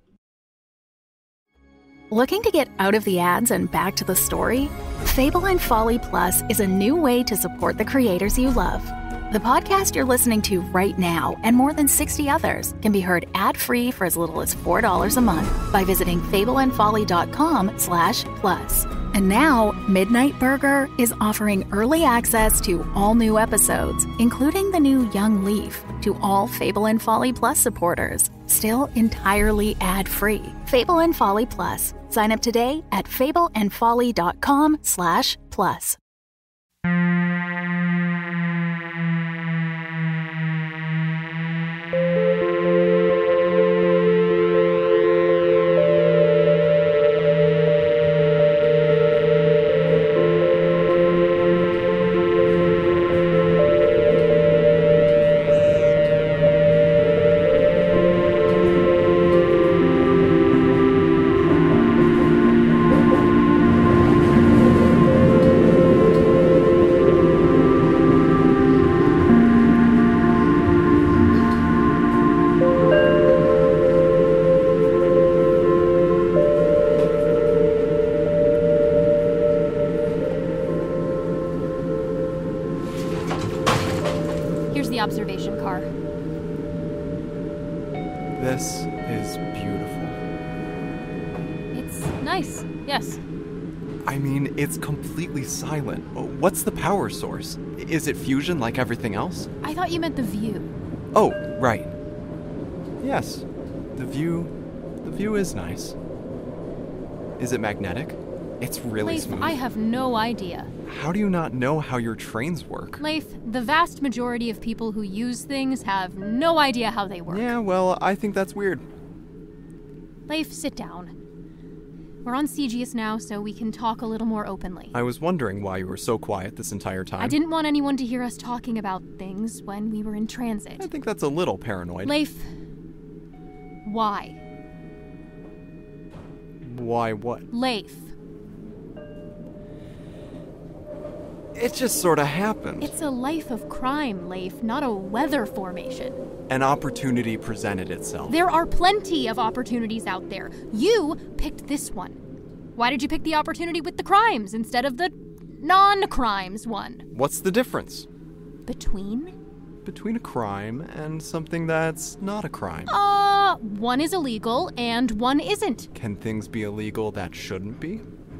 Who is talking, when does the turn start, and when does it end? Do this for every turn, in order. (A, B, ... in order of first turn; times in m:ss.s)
0:02.1-0:36.0 A
1:24.7-1:25.9 B
1:28.4-1:30.2 C
1:31.7-1:33.2 B
1:34.0-1:39.5 C
1:39.6-1:40.7 B
1:41.1-1:41.9 C
1:43.0-1:44.5 C
1:45.0-1:46.0 C
1:47.4-1:49.6 C
1:49.0-1:50.7 B
1:50.8-1:53.0 C
1:53.0-1:57.5 B
1:57.3-1:58.8 C
2:00.3-2:01.1 B
2:02.2-2:04.9 B
2:04.9-2:07.4 C
2:07.2-2:10.9 B
2:10.8-2:12.1 C
2:12.0-2:12.5 B
2:13.8-2:14.4 B
2:16.6-2:17.5 C
2:17.5-2:18.1 B
2:21.5-2:22.9 C
2:22.8-2:26.2 B
2:26.5-2:28.4 C
2:28.3-2:32.2 B
2:32.8-2:37.0 B
2:37.1-2:38.1 C
2:38.6-2:39.3 B
2:39.8-2:42.9 C
2:42.9-2:45.9 B
2:45.9-2:48.0 C